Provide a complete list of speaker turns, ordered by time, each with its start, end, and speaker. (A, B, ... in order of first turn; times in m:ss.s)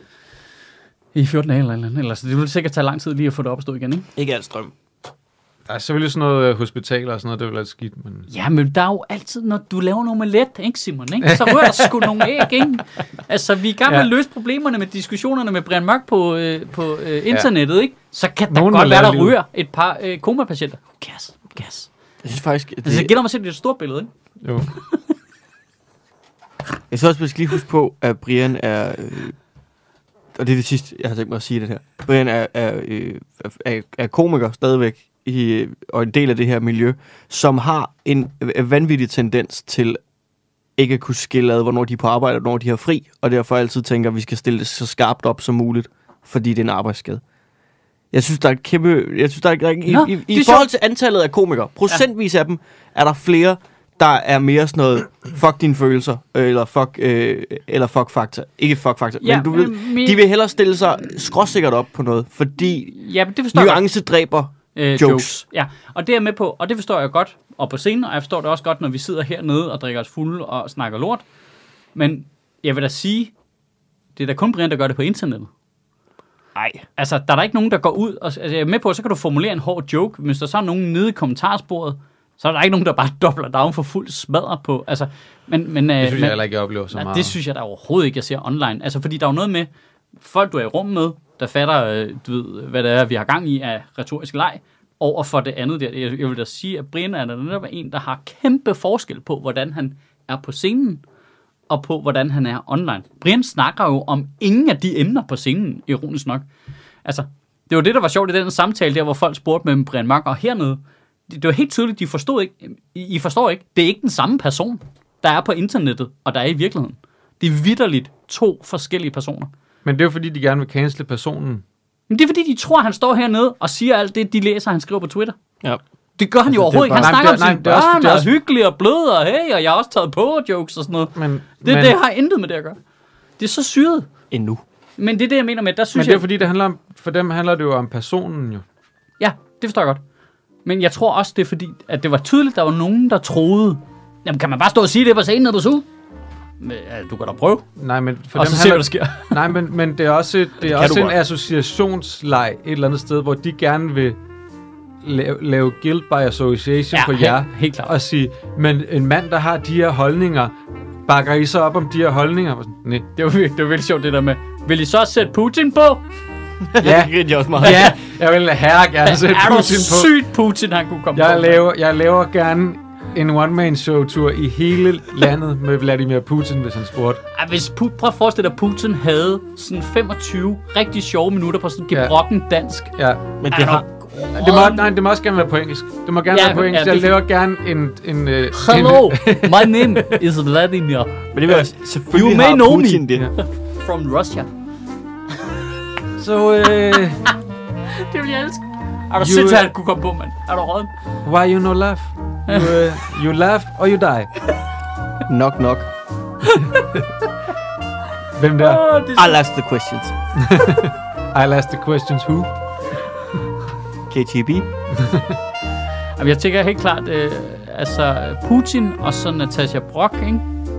0:01.1-0:04.1 A
0:04.2-0:04.7 B
0:05.7-0:08.3 C
0:08.3-0:21.9 A
0:11.2-0:12.5 C
0:18.5-0:19.4 C
0:22.2-0:23.1 B
0:22.8-0:24.1 A
0:24.4-0:24.7 C
0:26.9-0:29.4 B
0:30.3-0:40.0 B
0:40.8-0:47.2 B
0:48.1-1:03.0 B
0:49.9-0:50.7 A
0:59.2-1:00.2 A
1:02.9-1:03.8 A
1:03.5-1:05.4 B
1:04.8-1:11.2 A
1:12.0-1:13.3 A
1:14.2-1:15.5 A
1:16.6-1:16.8 B
1:17.0-1:26.4 A
1:26.0-1:27.4 C
1:26.9-1:29.7 A
1:30.2-1:41.0 A
1:41.7-1:46.5 A
1:47.0-1:59.5 A
1:59.8-2:01.6 C
2:02.1-2:05.4 A
2:06.2-2:12.8 A
2:06.5-2:07.2 B
2:06.9-2:08.3 C
2:11.2-2:12.0 C
2:13.4-2:14.1 A
2:14.3-2:14.6 B
2:15.0-2:16.3 A
2:16.0-2:18.6 C
2:19.2-2:20.0 A
2:20.7-2:25.9 A
2:26.6-2:27.7 A
2:27.8-2:34.2 C
2:28.4-2:29.5 A
2:30.6-2:31.2 B
2:35.0-2:40.5 C
2:36.9-2:37.9 A
2:41.1-2:43.1 C
2:43.2-2:46.0 A
2:46.7-2:47.9 B
2:46.8-2:50.1 C
2:47.6-2:48.0 A
2:49.0-2:51.6 A
2:51.2-2:57.2 C
2:57.3-3:02.9 A
3:03.0-3:03.3 C
3:03.4-3:03.8 B
3:03.5-3:04.9 A
3:04.3-3:10.2 C
3:06.3-3:07.2 A
3:08.5-3:11.2 A
3:11.3-3:13.3 B
3:12.1-3:14.5 A
3:16.2-3:17.2 C
3:16.7-3:17.3 A
3:17.9-3:20.9 A
3:19.2-3:19.7 C
3:21.2-3:24.3 C
3:22.5-3:22.8 A
3:25.3-3:25.9 B
3:26.4-3:26.9 A
3:26.6-3:27.0 C
3:28.4-3:28.8 C
3:28.6-3:29.4 A
3:29.2-3:30.1 B
3:30.4-3:32.5 C
3:34.1-3:34.7 B
3:34.9-3:35.4 C
3:36.2-3:40.5 A